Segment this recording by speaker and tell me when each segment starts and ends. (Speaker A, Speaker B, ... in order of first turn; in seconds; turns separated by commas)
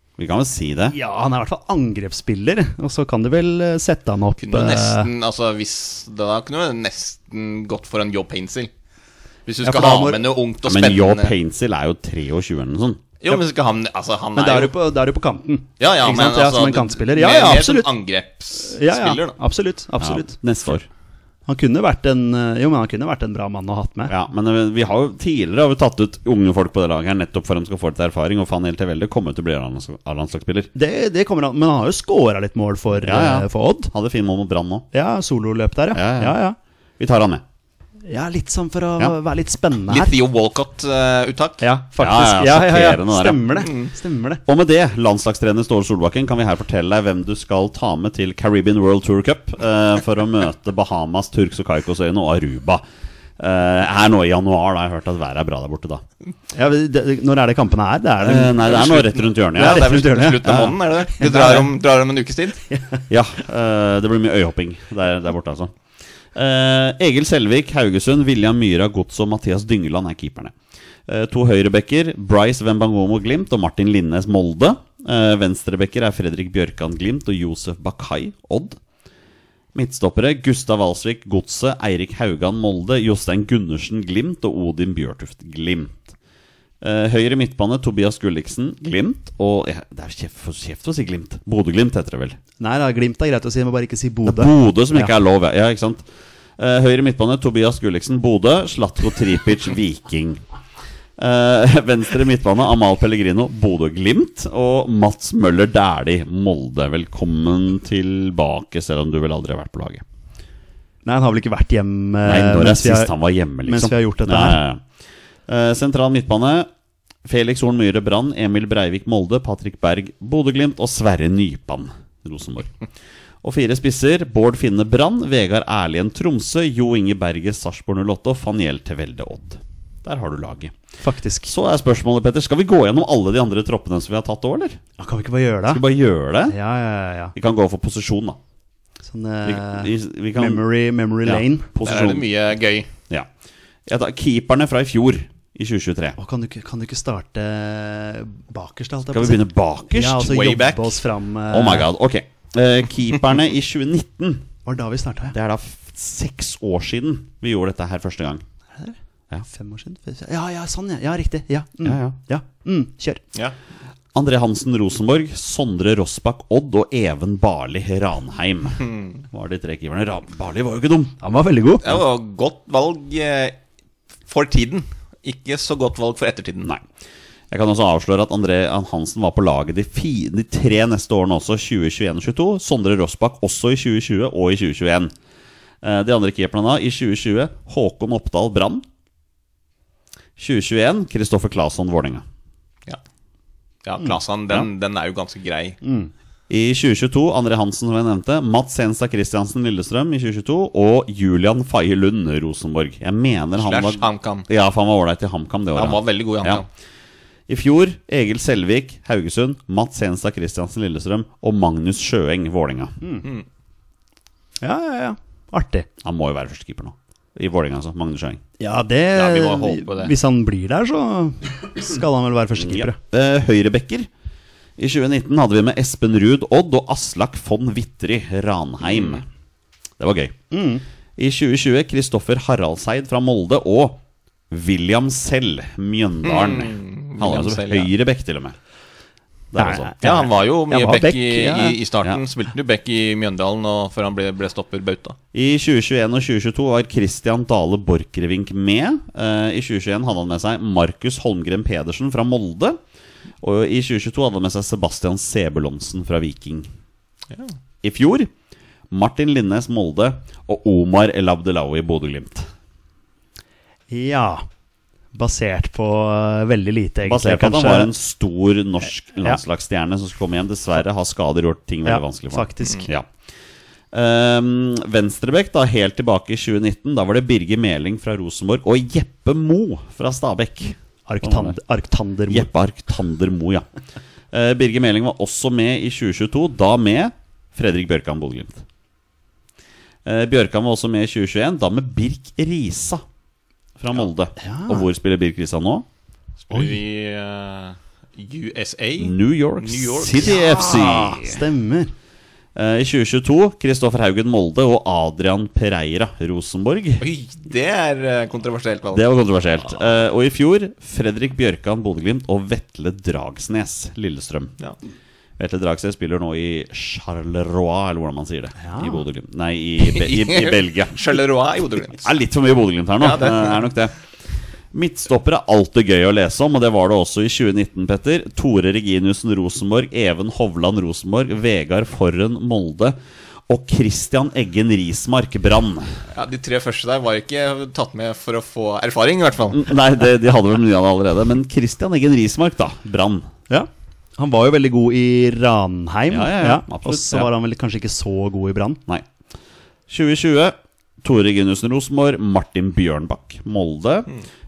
Speaker A: 0.2-0.9, Speaker B: 0.9-5.1, Speaker C: 4.4-8.7, Speaker C: 9.5-11.3, Speaker B: 9.6-10.2, Speaker A: 10.7-13.0, Speaker C: 13.2-14.7, Speaker B: 14.4-17.9, Speaker C: 15.8-19.4, Speaker B: 18.6-20.4, Speaker A: 20.0-20.9, Speaker B: 21.5-24.1, Speaker A: 24.1-30.7, Speaker B: 30.8-33.9, Speaker A: 33.0-34.9, Speaker B: 34.9-36.6, Speaker A: 35.9-36.4, Speaker A: 37.0-37.4, Speaker B: 38.1-40.1, Speaker C: 39.9-41.6, Speaker B: 41.6-44.4, Speaker A: 42.0-43.6, Speaker C: 43.6-43.9, Speaker A: 44.5-52.8, Speaker A: 53.4-56.0, Speaker B: 56.5-58.9, Speaker A: 58.2-59.9, Speaker C: 58.7-62.6, Speaker B: 59.5-61.7, Speaker A: 60.4-60.8, Speaker B: 62.7-63.0, Speaker A: 63.1-65.7, Speaker A: 66.3-70.5, Speaker A: 71.1-78.8, Speaker A: 79.8-86.1, Speaker A: 86.8-92.4, Speaker B: 92.6-95.1, Speaker A: 94.2-96.0, Speaker A: 96.6-100.4, Speaker A: 101.2-110.0, Speaker B: 111.0-113.1, Speaker A: 112.2-114.8, Speaker B: 113.7-114.6, Speaker A: 115.5-116.7, Speaker A: 117.3-122.7, Speaker A: 123.4-130.7, Speaker B: 131.0-131.5, Speaker A: 131.5-134.8, Speaker B: 135.0-135.8, Speaker A: 135.7-136.6, Speaker B: 136.5-137.3, Speaker A: 137.3-138.4, Speaker B: 139.0-141.7, Speaker A: 139.4-140.6, Speaker A: 141.2-142.3, Speaker C: 141.8-142.9, Speaker A: 143.9-146.2, Speaker B: 146.2-151.9, Speaker A: 149.1-150.4, Speaker C: 150.3-151.0, Speaker A: 151.5-154.5, Speaker B: 154.7-155.3, Speaker A: 155.3-158.4, Speaker B: 158.8-163.2, Speaker A: 161.8-162.2, Speaker A: 164.2-171.2, Speaker B: 171.2-171.9, Speaker C: 171.8-173.6, Speaker C: 174.3-176.7, Speaker A: 177.5-185.1, Speaker A: 185.8-188.8, Speaker A: 190.4-192.2, Speaker C: 193.8-195.8, Speaker B: 195.8-196.1, Speaker A: 196.5-206.6, Speaker C: 203.6-204.5, Speaker C: 205.8-206.7, Speaker A: 207.5-213.0, Speaker B: 213.0-213.3, Speaker B: 214.6-215.9, Speaker A: 216.0-218.4, Speaker B: 218.6-223.0, Speaker C: 219.2-220.1, Speaker A: 222.6-224.1, Speaker A: 224.8-229.2, Speaker C: 228.9-229.2, Speaker A: 230.0-230.3, Speaker B: 230.5-230.8, Speaker A: 231.2-238.6, Speaker C: 236.2-237.9, Speaker A: 239.5-239.9, Speaker B: 239.6-241.8, Speaker C: 240.0-245.2, Speaker A: 245.3-252.8, Speaker A: 253.4-256.7, Speaker A: 257.8-258.3, Speaker A: 258.9-262.5, Speaker B: 263.9-264.4, Speaker B: 265.1-267.9, Speaker A: 267.1-273.1, Speaker B: 271.9-272.9, Speaker A: 273.9-281.6, Speaker B: 281.1-282.5, Speaker A: 282.3-283.6, Speaker A: 284.3-288.6, Speaker A: 290.1-293.0, Speaker A: 293.8-295.9, Speaker B: 294.4-294.9, Speaker C: 296.5-300.4, Speaker A: 299.0-301.4, Speaker B: 300.3-301.9, Speaker A: 302.6-307.1, Speaker C: 307.0-309.8, Speaker A: 308.9-314.5, Speaker A: 315.4-321.0, Speaker B: 318.6-319.0, Speaker C: 319.9-322.1, Speaker A: 322.0-323.9, Speaker C: 323.0-323.6, Speaker A: 324.7-333.0, Speaker A: 333.5-336.0, Speaker C: 336.1-339.7, Speaker A: 339.5-343.3, Speaker B: 343.5-348.8, Speaker A: 346.1-347.3, Speaker A: 349.9-354.1